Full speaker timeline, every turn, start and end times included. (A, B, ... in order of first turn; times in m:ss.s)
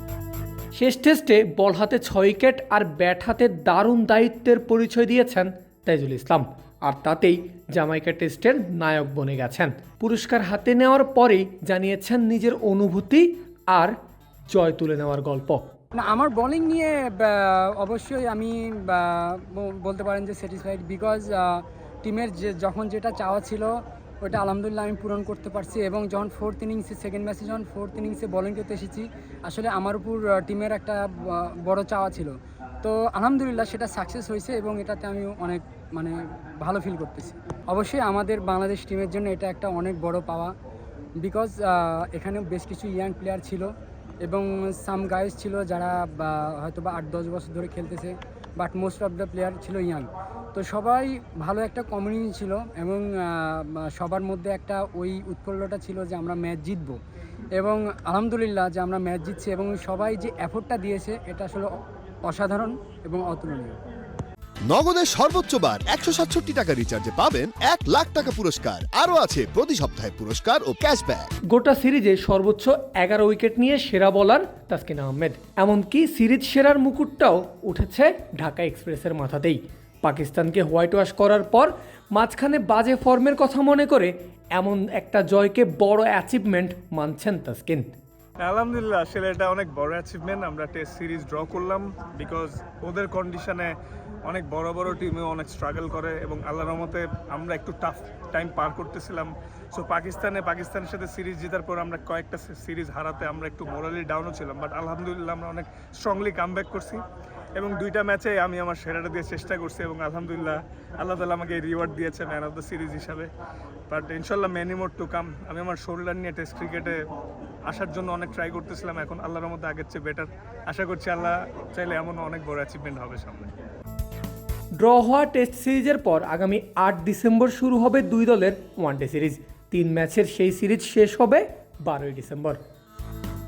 0:00.7-0:14.0 A
0:14.5-0:15.7 A
0:15.9-0:40.5 B
0:41.2-0:43.7 B
0:44.2-0:57.0 B
0:57.6-1:01.7 B
1:02.2-1:03.8 B
1:04.6-1:11.3 C
1:11.5-1:27.9 A
1:28.4-1:33.7 D
1:34.2-1:47.0 D
1:47.6-1:53.3 D
1:53.9-1:57.0 D
1:57.7-2:03.5 D
2:04.7-2:12.6 A